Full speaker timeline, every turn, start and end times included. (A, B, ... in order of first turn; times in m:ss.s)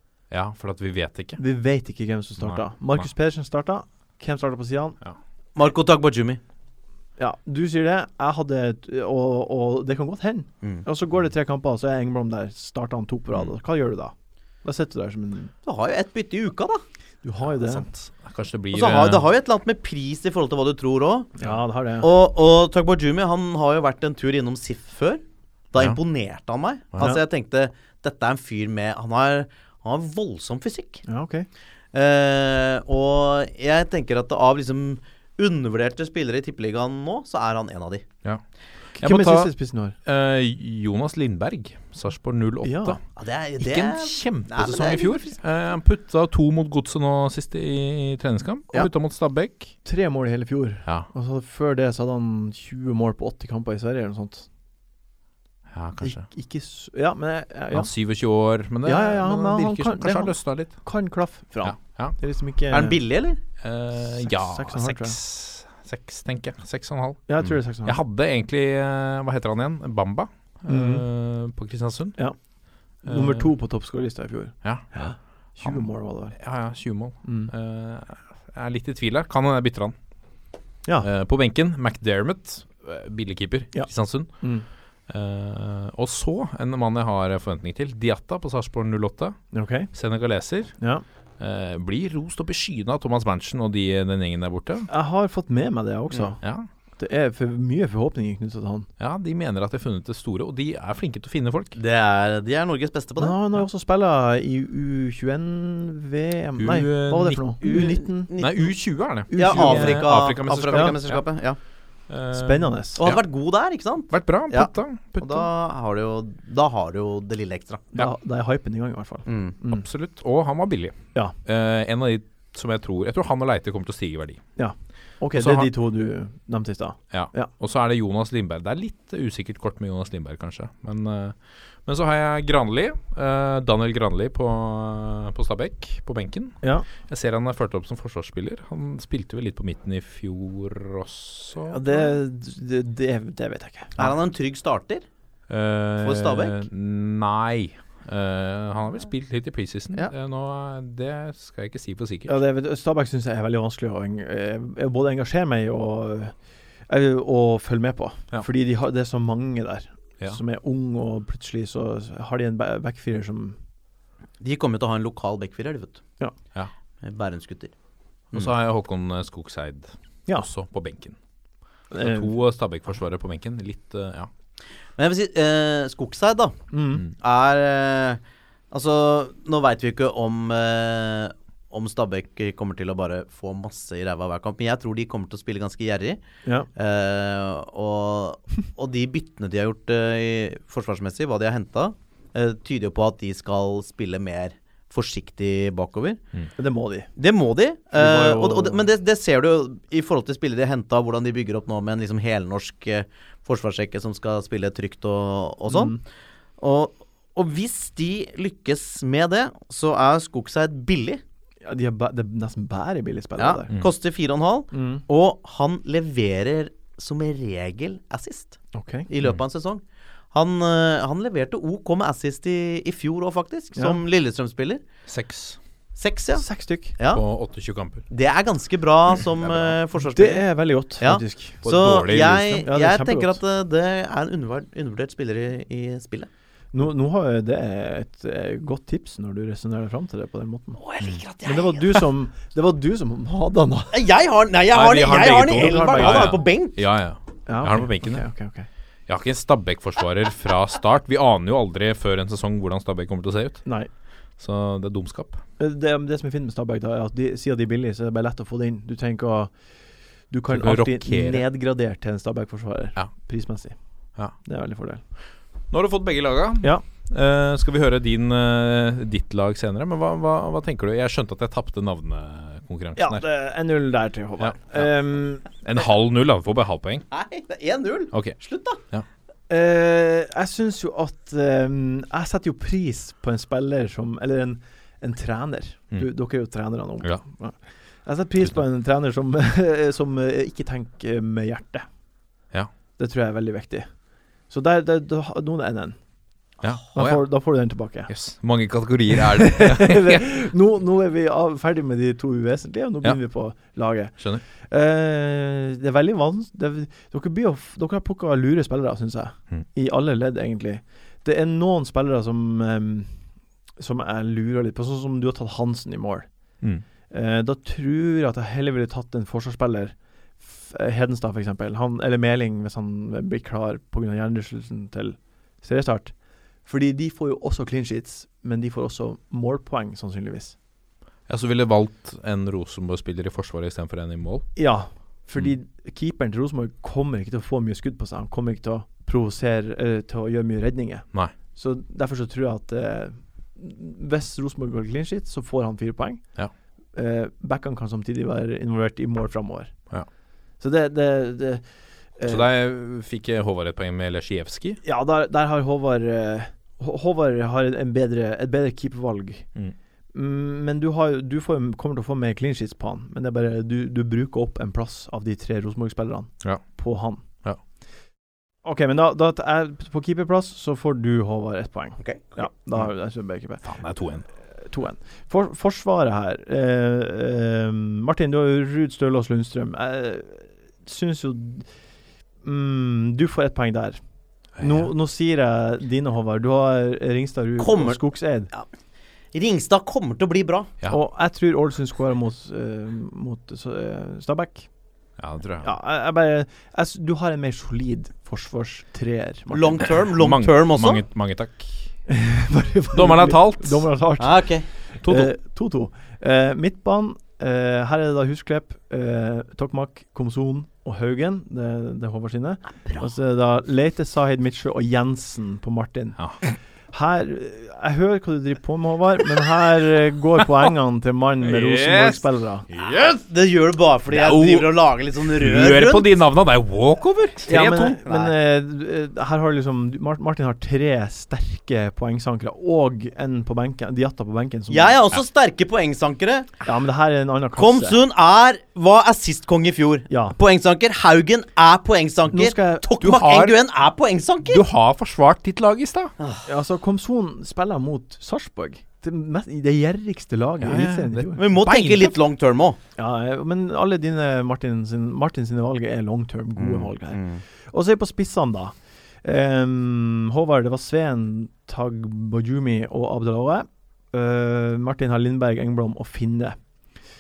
0:00.3-0:01.4 A
0:01.4-0:05.0 B
0:02.4-0:03.1 A
0:05.6-0:06.4 C
0:07.2-0:14.1 B
0:14.6-0:15.5 B
0:15.6-0:16.8 C
0:17.2-0:17.9 B
0:17.6-0:19.2 A
0:18.7-0:21.3 C
0:21.4-0:22.1 B
0:22.0-0:31.0 C
0:31.1-0:31.5 B
0:31.9-0:38.1 C
0:39.0-0:40.0 B
0:39.0-0:39.5 A
0:40.0-0:43.0 A
0:42.6-0:43.0 B
0:43.2-0:45.3 C
0:43.6-0:49.8 A
0:49.8-0:54.5 B
0:55.7-0:56.3 A
0:56.0-0:57.9 B
0:57.7-1:00.8 A
0:58.8-1:03.0 B
1:01.6-1:02.2 A
1:02.7-1:03.4 C
1:03.6-1:12.2 A
1:04.0-1:05.2 B
1:07.3-1:08.0 B
1:10.7-1:11.0 B
1:13.0-1:16.4 B
1:13.0-1:13.5 A
1:15.6-1:20.0 A
1:17.2-1:17.5 B
1:21.0-1:24.3 A
1:24.4-1:24.6 B
1:25.1-1:29.4 A
1:29.5-1:29.9 B
1:29.9-1:30.7 A
1:30.8-1:31.0 B
1:31.4-1:34.9 A
1:34.9-1:36.4 B
1:36.4-1:36.7 A
1:37.0-1:38.9 B
1:39.0-1:41.8 A
1:41.8-1:43.4 C
1:43.2-1:48.3 B
1:46.6-1:51.2 A
1:47.6-1:48.7 C
1:49.3-1:50.1 B
1:49.3-1:51.6 C
1:50.7-1:51.0 B
1:52.1-1:53.2 A
1:52.3-1:53.0 B
1:53.0-1:57.9 C
1:54.1-1:55.5 A
1:57.9-1:59.8 B
1:59.3-1:59.6 C
1:59.7-2:04.4 A
2:04.6-2:07.5 B
2:05.3-2:05.7 A
2:07.1-2:22.1 A
2:16.6-2:16.9 B
2:21.7-2:23.9 B
2:24.0-2:25.0 C
2:25.5-2:32.4 A
2:26.0-2:26.6 C
2:32.3-2:36.3 B
2:36.9-2:43.6 B
2:44.4-2:46.0 C
2:47.0-2:47.7 C
2:48.3-2:51.2 A
2:51.9-2:52.3 B
2:52.0-2:54.3 A
2:55.0-2:56.6 C
2:56.7-2:57.0 B
2:57.1-2:58.2 C
2:58.7-3:06.2 C
3:06.8-3:16.2 C
3:16.6-3:17.1 B
3:17.2-3:26.0 C
3:17.9-3:18.8 B
3:25.7-3:26.0 B
3:26.6-3:31.2 C
3:31.6-3:33.7 B
3:33.4-3:39.8 C
3:34.7-3:35.0 B
3:38.7-3:39.1 B
3:40.3-3:44.8 C
3:43.8-3:44.0 B
3:45.1-3:45.6 A
3:46.0-3:46.4 C
3:46.4-3:47.0 B
3:47.0-3:47.2 C
3:47.1-3:48.0 A
3:48.1-3:50.4 C
3:49.4-3:49.8 A
3:50.1-3:53.4 B
3:51.0-3:56.3 C
3:51.6-3:52.5 A
3:56.7-4:00.8 B
4:00.8-4:02.1 C
4:01.4-4:04.1 B
4:03.9-4:06.8 C
4:04.7-4:08.2 A
4:05.1-4:06.4 B
4:07.5-4:08.7 B
4:09.1-4:13.6 A
4:14.4-4:15.4 A
4:15.6-4:19.5 B
4:20.3-4:23.8 B
4:20.5-4:21.5 A
4:24.4-4:25.0 B
4:25.7-4:33.2 A
4:33.0-4:35.4 B
4:34.4-4:34.9 A
4:35.4-4:37.0 A
4:37.1-4:38.8 C
4:39.5-4:51.9 B
4:53.0-4:53.9 B
4:54.5-4:56.0 B
4:56.6-4:57.3 A
4:56.9-4:58.1 B
4:58.1-5:00.3 A
4:59.3-5:13.2 B
5:13.8-5:16.3 B
5:17.1-5:26.1 B
5:26.6-5:30.6 B
5:31.3-5:34.5 A
5:34.6-5:46.2 B
5:47.0-5:49.7 B
5:50.6-5:51.6 B
5:52.2-5:52.5 B
5:52.3-5:54.8 A
5:54.8-5:59.5 B
6:00.1-6:07.2 B
6:08.6-6:13.8 B
6:12.0-6:12.4 C
6:13.6-6:14.3 A
6:14.6-6:21.7 B
6:22.4-6:24.0 B
6:24.6-6:24.9 A
6:24.6-6:28.5 B
6:27.6-6:28.6 C
6:29.3-6:30.7 C
6:30.9-6:34.7 B
6:35.2-6:35.7 A
6:35.6-6:39.9 B
6:39.5-6:41.0 C
6:40.2-6:41.9 A
6:42.1-6:56.2 B
6:42.9-6:43.9 A
6:44.2-6:44.7 C
6:45.0-6:45.3 A
6:56.9-7:02.7 B
7:01.4-7:03.2 A
7:02.9-7:06.1 C
7:04.1-7:04.8 A
7:05.4-7:08.0 A
7:07.5-7:15.0 B
7:08.0-7:08.4 C
7:14.7-7:16.6 C
7:16.6-7:18.0 B
7:17.6-7:24.7 C
7:20.1-7:20.4 B
7:22.3-7:22.9 B
7:23.0-7:23.6 A
7:24.4-7:26.1 A
7:26.5-7:31.4 B
7:30.6-7:32.2 A
7:31.4-7:32.8 C
7:33.0-7:46.6 B
7:36.6-7:37.4 C